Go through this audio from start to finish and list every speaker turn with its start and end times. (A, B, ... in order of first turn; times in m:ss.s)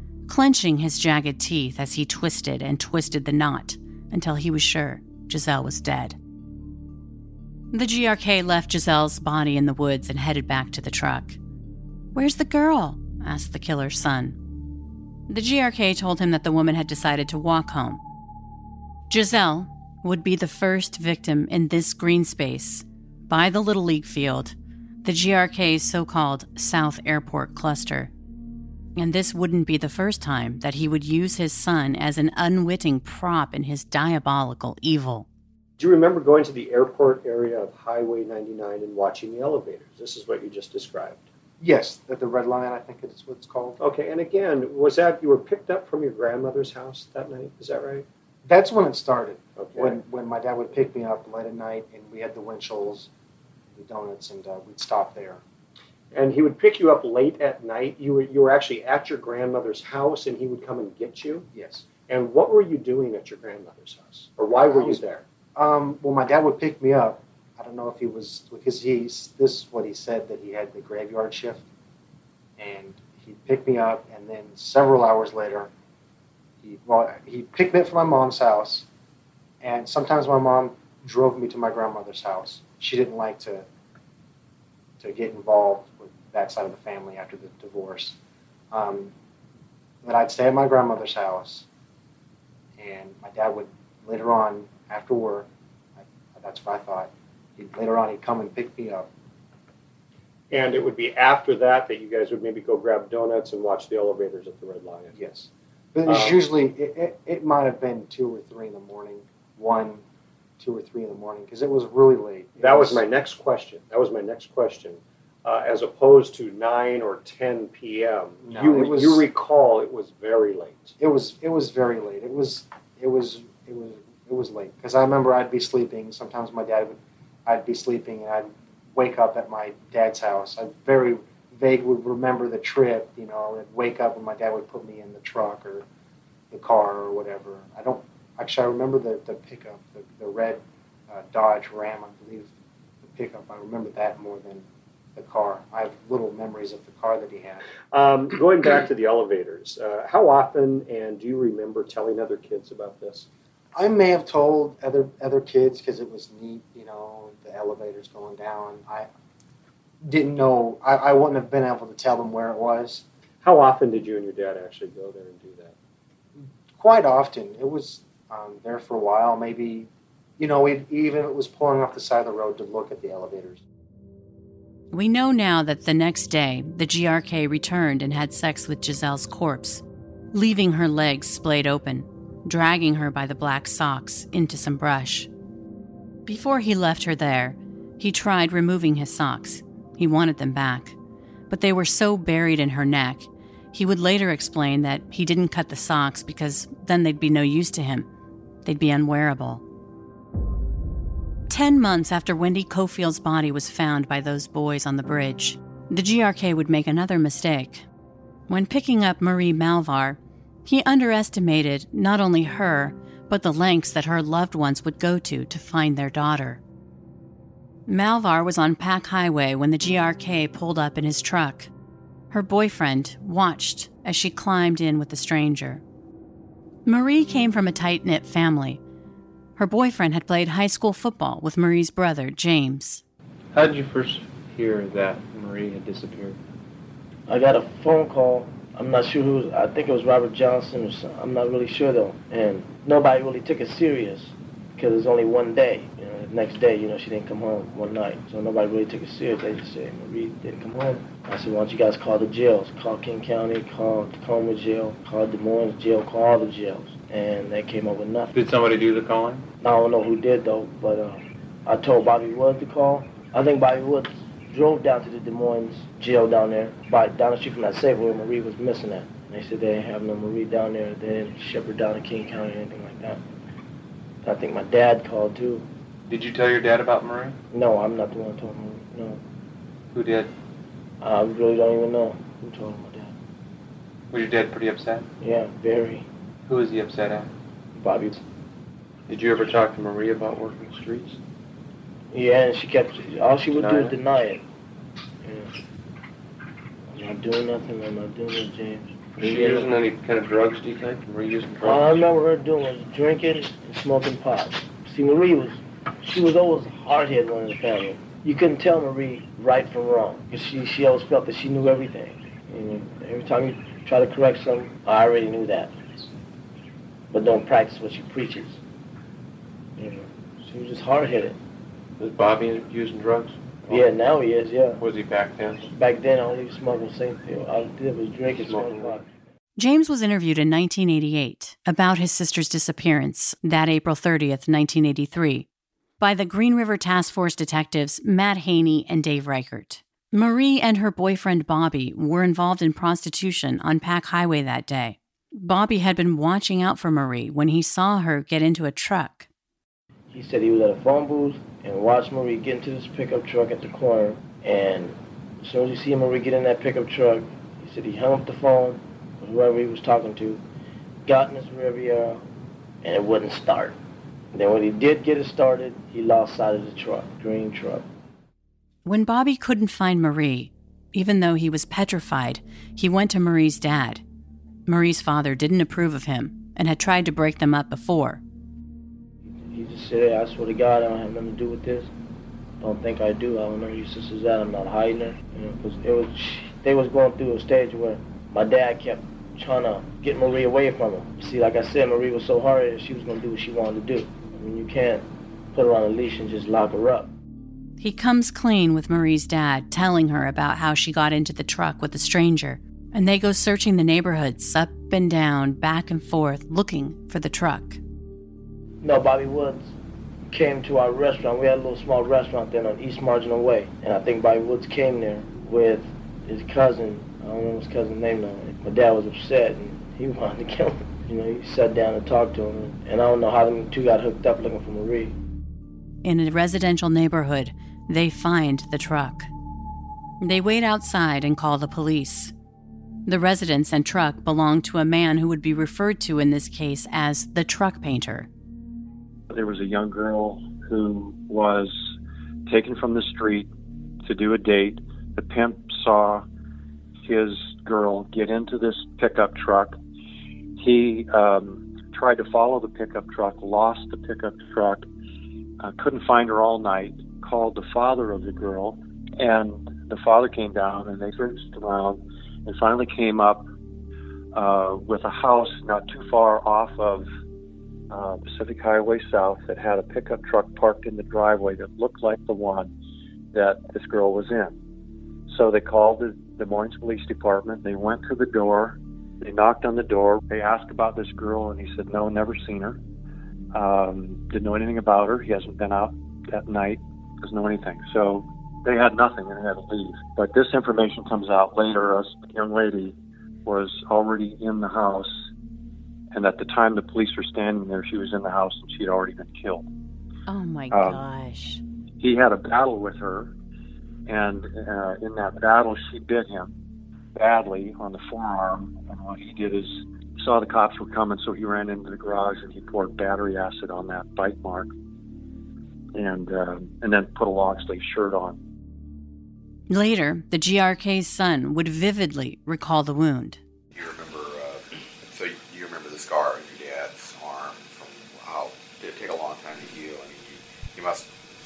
0:00.3-0:06.2 A
0:07.7-0:11.4 A
0:12.1-0:14.4 A
0:15.3-0:18.0 A
0:19.1-0:28.1 A
0:29.0-0:35.3 A
0:35.8-0:41.2 B
0:41.6-0:43.8 C
0:43.8-0:48.0 B
0:48.4-0:53.1 C
0:49.6-0:50.0 B
0:53.7-0:55.4 C
0:56.1-1:05.2 B
1:01.5-1:01.9 C
1:04.5-1:11.6 C
1:12.6-1:15.7 C
1:16.6-1:18.9 C
1:19.6-1:23.6 C
1:25.0-1:28.2 C
1:28.7-1:29.1 C
1:30.0-1:31.7 C
1:32.8-1:39.1 C
1:40.5-1:45.2 B
1:45.1-1:50.0 C
1:46.1-1:46.4 B
1:50.6-1:53.0 C
1:52.6-2:00.9 B
1:58.4-1:59.3 C
2:01.0-2:15.8 C
2:16.5-2:27.6 C
2:27.9-2:33.3 B
2:33.7-2:39.1 C
2:40.0-2:43.0 C
2:43.4-2:45.7 B
2:46.7-2:53.6 C
2:54.9-3:05.3 A
3:06.2-3:11.0 A
3:11.5-3:18.1 A
3:18.6-3:19.6 A
3:21.5-3:27.8 A
3:28.5-3:36.6 A
3:37.9-3:41.7 A
3:42.3-3:45.8 A
3:46.8-3:48.8 A
3:49.6-3:53.0 A
3:53.5-3:56.4 D
3:57.3-4:18.3 E
4:18.3-4:19.5 D
4:19.6-4:33.2 E
4:34.2-4:35.6 E
4:36.1-4:37.4 D
4:37.5-4:39.2 E
4:39.9-4:40.3 D
4:41.0-4:43.1 E
4:44.1-4:45.1 D
4:45.2-4:46.0 E
4:46.4-4:47.3 D
4:47.8-4:48.2 E
4:49.1-4:51.2 D
4:52.1-4:54.4 E
4:53.5-4:54.0 D
4:55.2-4:55.5 E
4:56.9-4:59.8 E
4:59.2-5:02.0 D
5:01.6-5:15.7 E
5:17.1-5:18.6 E
5:19.8-5:21.4 E
5:22.0-5:23.9 D
5:23.6-5:24.8 E
5:24.8-5:25.7 D
5:25.7-5:29.1 E
5:28.4-5:29.0 D
5:29.6-5:35.5 A
5:36.0-5:49.3 A
5:50.1-6:00.4 E
6:01.0-6:02.2 E
6:02.8-6:03.8 E
6:04.3-6:07.9 E
6:08.8-6:14.0 A
6:14.6-6:18.2 A
6:19.5-6:21.9 E
6:22.6-6:37.1 E
6:37.8-6:47.8 A
6:48.8-6:49.7 E
6:50.3-7:05.1 E
7:06.0-7:09.3 A
7:10.2-7:12.3 A
7:13.0-7:18.3 A
7:19.3-7:21.9 F
7:22.5-7:23.5 F
7:24.0-7:26.2 F
7:27.0-7:29.7 F
7:30.6-7:34.8 F
7:35.6-7:43.4 F
7:44.3-7:47.0 F
7:47.9-7:52.7 F
7:53.3-7:54.5 F
7:55.3-8:02.8 F
8:03.5-8:12.9 F
8:13.4-8:15.2 F
8:16.1-8:19.6 F
8:20.3-8:21.6 A
8:20.7-8:21.0 F
8:22.0-8:23.3 F
8:24.0-8:26.5 F
8:27.1-8:34.7 F
8:35.9-8:38.4 F
8:39.7-8:43.4 A
8:43.7-8:51.1 G